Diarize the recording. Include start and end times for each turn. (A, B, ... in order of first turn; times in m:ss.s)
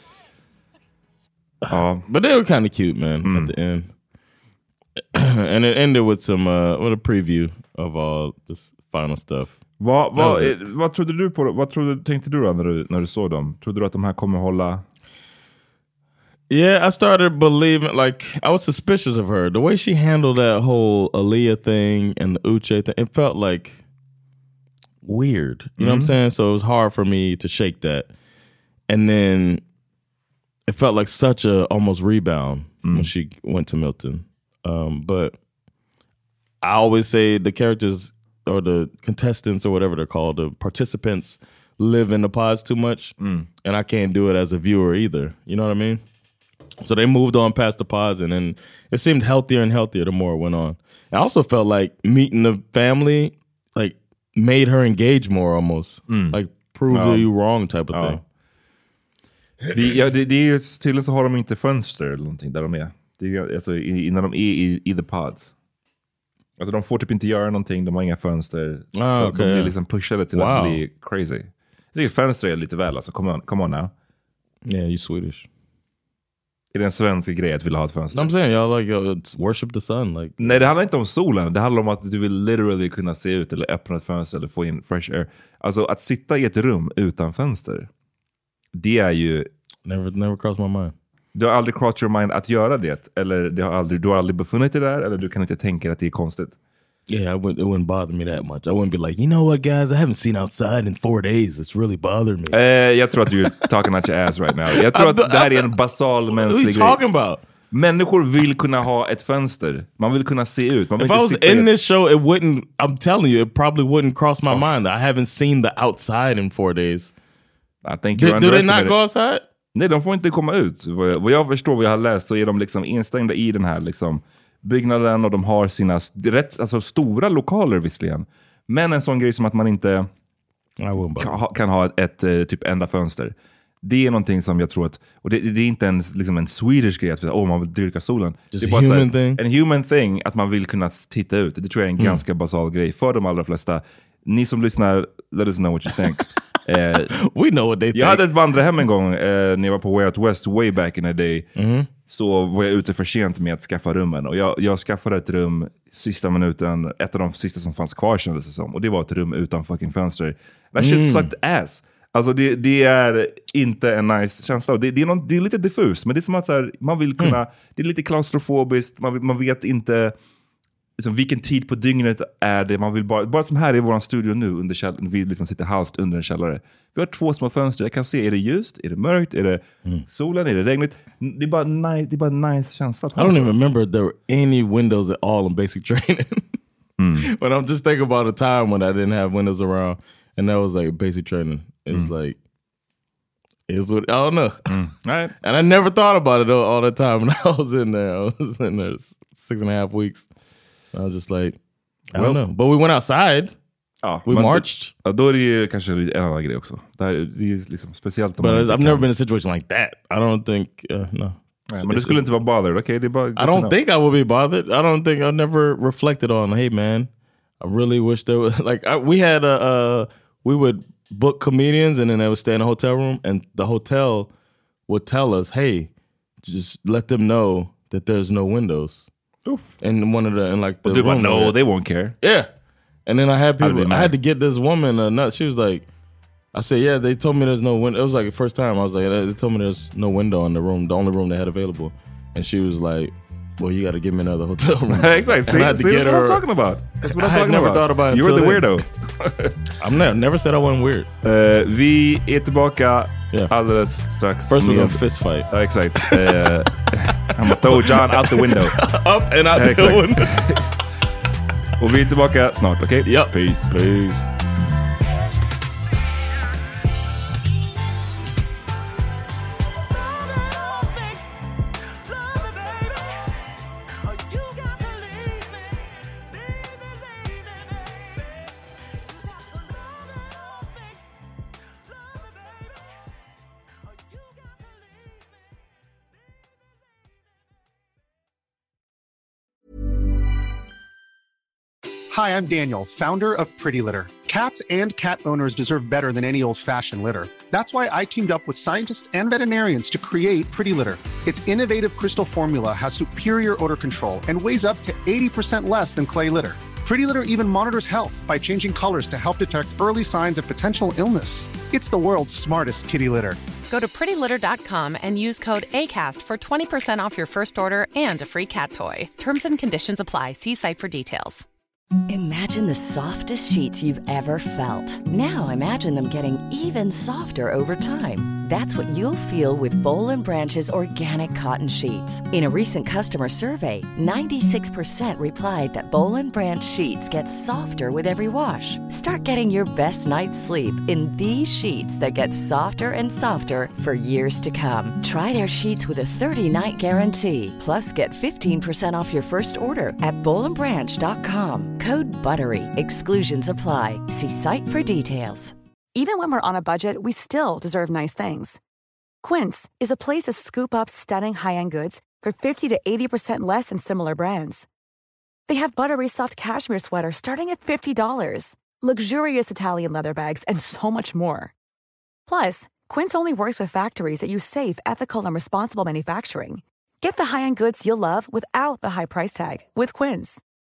0:01.7-0:03.9 A
0:01.7-0:02.1 B
0:03.2-0:03.5 B
0:05.1-0:09.5 A
0:09.8-0:14.8 B
0:10.2-0:10.5 A
0:16.5-0:23.8 A
0:25.0-0:28.1 A
0:25.8-0:26.1 B
0:28.9-0:29.6 A
0:30.7-0:35.4 A
0:32.8-0:33.1 B
0:36.6-0:46.0 A
0:43.2-0:43.5 B
0:46.8-0:58.2 A
0:56.1-0:56.4 B
0:56.9-0:57.3 B
0:57.9-0:58.2 B
0:59.7-1:05.5 B
1:06.6-1:13.9 B
1:09.0-1:09.7 A
1:10.4-1:10.8 A
1:14.6-1:15.5 A
1:16.7-1:18.3 B
1:18.1-1:20.6 A
1:20.4-1:27.9 B
1:28.8-1:29.5 B
1:29.8-1:31.0 A
1:31.4-1:36.6 B
1:37.1-1:42.6 A
1:42.5-1:47.0 B
1:44.7-1:45.7 A
1:46.4-1:47.4 A
1:47.7-1:51.7 B
1:51.0-1:57.1 A
1:57.8-1:59.0 B
1:58.1-1:59.4 A
1:59.7-2:10.1 B
2:10.8-2:11.4 A
2:11.2-2:27.2 B
2:18.5-2:19.4 A
2:22.0-2:22.2 A
2:27.2-2:28.2 A
2:27.9-2:31.5 B
2:31.6-2:31.9 A
2:32.0-2:50.1 B
2:40.8-2:41.3 A
2:51.0-3:03.6 B
3:03.2-3:06.6 A
3:07.0-3:07.3 B
3:07.2-3:12.4 A
3:13.7-3:14.7 A
3:14.7-3:15.3 B
3:15.4-3:20.3 A
3:20.9-3:21.6 A
3:22.1-3:23.5 A
3:22.1-3:22.4 B
3:24.0-3:29.1 B
3:24.3-3:24.9 A
3:28.4-3:32.2 A
3:31.7-3:33.8 B
3:33.4-3:37.1 A
3:37.6-3:44.3 A
3:44.9-3:45.9 A
3:46.4-3:49.1 A
3:49.4-3:49.7 B
3:49.8-3:51.6 A
3:50.8-3:52.2 B
3:52.2-3:52.5 A
3:53.1-3:55.9 A
3:53.6-3:54.1 B
3:56.5-4:06.4 A
4:04.9-4:09.6 B
4:07.0-4:08.7 A
4:09.8-4:11.1 A
4:11.2-4:18.8 B
4:14.5-4:15.5 A
4:16.0-4:16.4 A
4:17.5-4:20.6 A
4:19.5-4:20.7 B
4:21.8-4:23.7 B
4:23.0-4:24.3 A
4:52.1-5:13.4 C
5:13.7-5:21.4 D
5:22.1-5:55.6 E
5:56.0-5:58.6 F
5:59.2-6:04.7 F
6:05.5-6:11.5 F
6:12.3-6:20.4 F